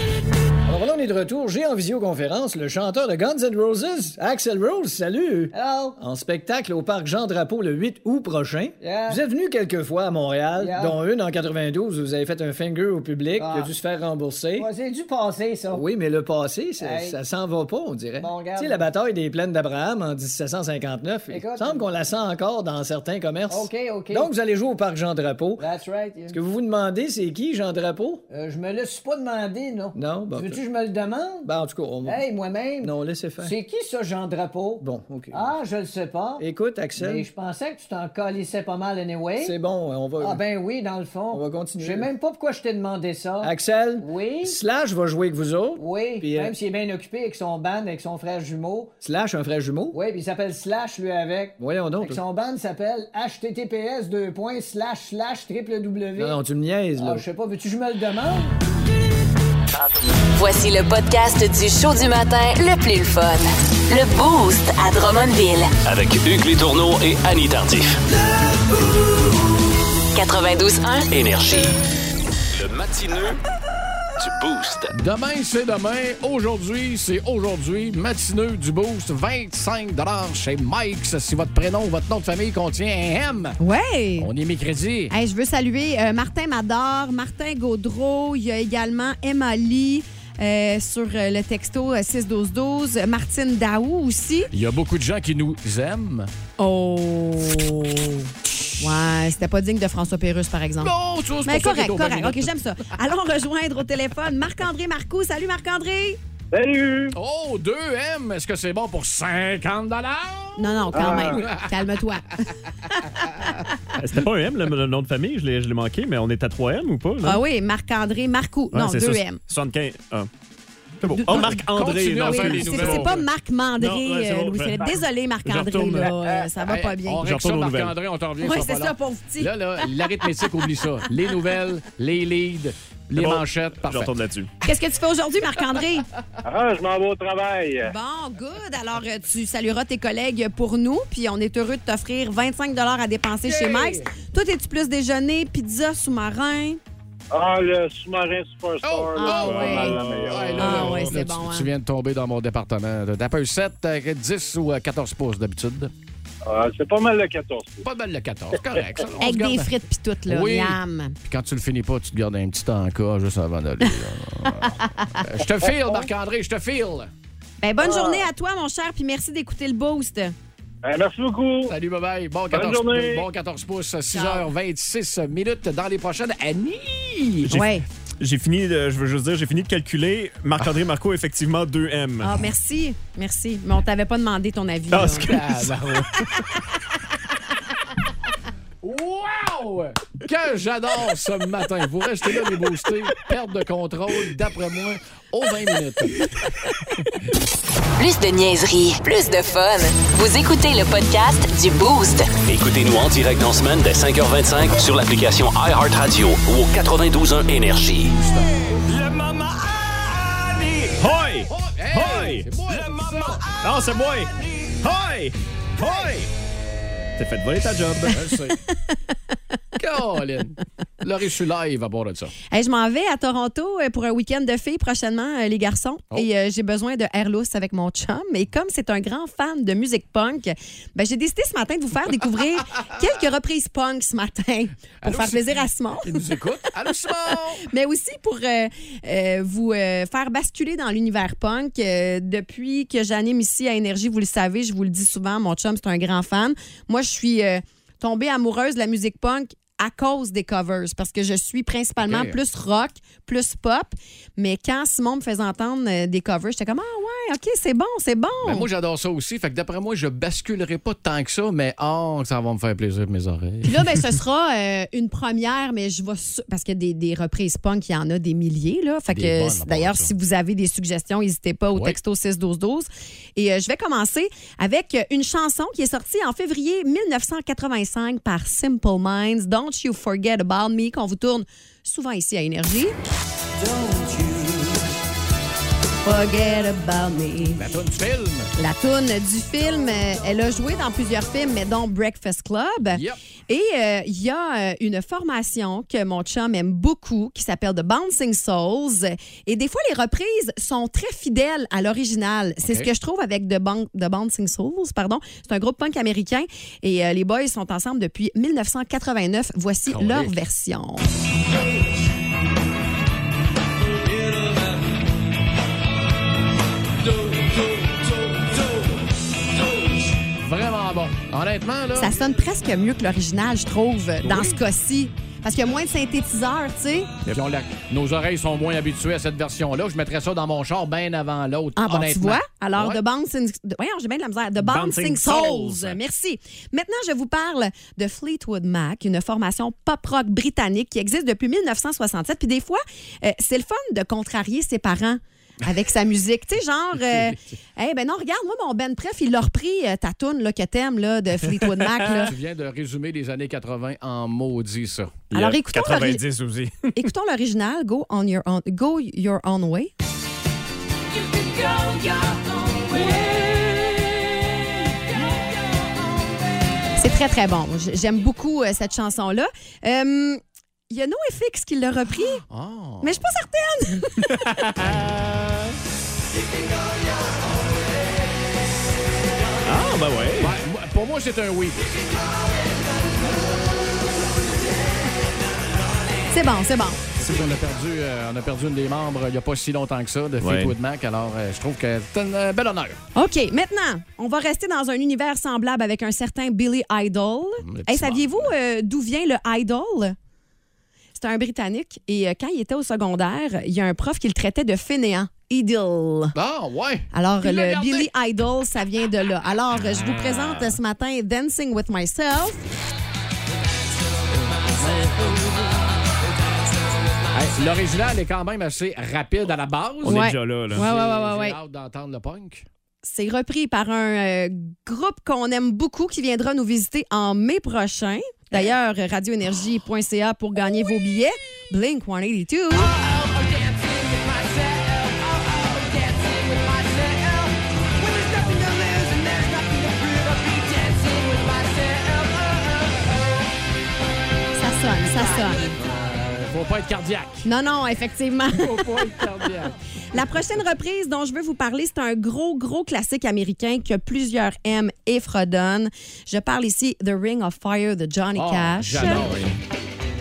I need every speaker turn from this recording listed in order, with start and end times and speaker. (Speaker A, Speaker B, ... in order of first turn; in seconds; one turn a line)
Speaker A: 0.7-14.7
Speaker B: 5.5-6.0
Speaker B: 8.8-9.2
Speaker B: 10.5-11.0
Speaker B: 13.4-13.8
Speaker B: 14.6-15.9
Speaker A: 15.7-25.6
Speaker B: 16.8-17.2
Speaker B: 18.2-18.9
Speaker B: 21.3-21.9
Speaker B: 23.5-24.3
Speaker B: 25.6-26.4
Speaker A: 26.3-28.2
Speaker B: 28.3-31.5
Speaker A: 29.9-30.6
Speaker A: 31.5-32.2
Speaker B: 32.0-39.6
Speaker A: 32.8-33.5
Speaker A: 34.8-35.5
Speaker A: 36.4-37.2
Speaker A: 39.4-40.4
Speaker B: 40.2-44.6
Speaker A: 41.3-42.1
Speaker A: 43.4-46.5
Speaker B: 45.8-48.9
Speaker A: 49.0-50.0
Speaker B: 49.9-56.4
Speaker A: 51.6-52.2
Speaker A: 56.2-57.2
Speaker B: 57.0-58.5
Speaker C: 60.3-65.7
Speaker D: 65.8-68.0
Speaker C: 70.1-71.1
Speaker D: 71.1-71.8
Speaker D: 72.5-73.4
Speaker D: 74.2-75.0
Speaker E: 74.9-83.6
Speaker F: 83.6-84.3
Speaker E: 84.2-85.1
Speaker F: 85.1-94.5
Speaker E: 94.5-96.3
Speaker F: 96.6-100.9
Speaker E: 98.5-98.8
Speaker E: 100.8-102.5
Speaker F: 101.4-106.2
Speaker G: 106.5-107.1
Speaker E: 107.1-111.8
Speaker F: 110.6-113.0
Speaker G: 110.9-111.4
Speaker E: 113.2-113.5
Speaker H: 114.0-117.4
Speaker F: 117.2-119.4
Speaker H: 118.7-120.3
Speaker H: 121.0-123.2
Speaker F: 121.1-121.6
Speaker E: 121.3-123.2
Speaker F: 122.2-127.3
Speaker H: 123.8-126.2
Speaker E: 126.6-134.1
Speaker H: 127.2-128.0
Speaker F: 128.4-130.2
Speaker H: 133.1-134.5
Speaker F: 134.6-136.1
Speaker G: 136.4-137.9
Speaker F: 137.8-146.8
Speaker E: 143.4-144.1
Speaker G: 147.3-150.8
Speaker E: 148.8-155.9
Speaker F: 149.2-150.0
Speaker H: 149.3-151.1
Speaker F: 150.6-151.7
Speaker G: 156.5-157.8
Speaker E: 157.8-159.7
Speaker F: 159.2-161.2
Speaker E: 160.3-167.1
Speaker F: 164.5-165.2
Speaker F: 167.6-170.3
Speaker G: 167.8-168.1
Speaker G: 170.8-171.7
Speaker E: 171.7-177.5
Speaker G: 172.5-173.3
Speaker F: 174.1-174.5
Speaker H: 177.5-182.4
Speaker F: 177.5-177.8
Speaker F: 182.2-185.3
Speaker H: 184.9-186.3
Speaker E: 185.2-186.1
Speaker E: 188.8-196.3
Speaker C: 198.0-202.3
Speaker D: 202.4-208.2
Speaker E: 208.1-208.8
Speaker H: 210.8-212.5
Speaker E: 211.5-213.5
Speaker H: 213.6-216.3
Speaker H: 217.2-218.2
Speaker E: 218.1-218.6
Speaker E: 219.8-222.3
Speaker F: 222.5-236.2
Speaker E: 235.0-237.7
Speaker F: 237.6-258.7
Speaker E: 252.0-252.4
Speaker E: 258.4-263.8
Speaker F: 263.6-282.9
Speaker E: 269.1-270.1
Speaker F: 286.0-287.6
Speaker E: 287.6-288.5
Speaker F: 288.6-311.1
Speaker E: 292.9-293.2
Speaker E: 302.6-302.9
Speaker E: 309.9-310.4
Speaker E: 320.4-322.1
Speaker F: 322.0-327.1
Speaker E: 324.2-324.6
Speaker E: 327.3-333.0
Speaker F: 331.8-352.3
Speaker H: 334.6-336.0
Speaker H: 351.6-352.1
Speaker E: 352.2-355.2
Speaker F: 355.3-356.2
Speaker H: 355.3-357.1
Speaker F: 356.9-359.9
Speaker F: 367.0-372.4
Speaker E: 372.5-373.2
Speaker F: 373.0-374.4
Speaker H: 374.2-375.8
Speaker H: 379.6-380.6
Speaker E: 380.4-382.0
Speaker F: 386.3-387.0
Speaker E: 387.1-393.0
Speaker H: 390.4-390.8
Speaker F: 393.1-400.1
Speaker E: 397.6-398.5
Speaker F: 401.1-406.4
Speaker E: 406.4-408.1
Speaker F: 407.1-412.6
Speaker E: 414.5-415.7
Speaker E: 417.3-422.6
Speaker H: 420.0-420.9
Speaker F: 420.1-421.6
Speaker F: 423.0-432.9
Speaker B: 433.7-434.2
Speaker B: 435.1-437.5
Speaker B: 438.0-442.9
Speaker F: 444.6-445.7
Speaker E: 445.8-447.5
Speaker F: 447.4-449.1
Speaker E: 448.5-450.2
Speaker F: 450.1-459.4
Speaker E: 458.4-459.5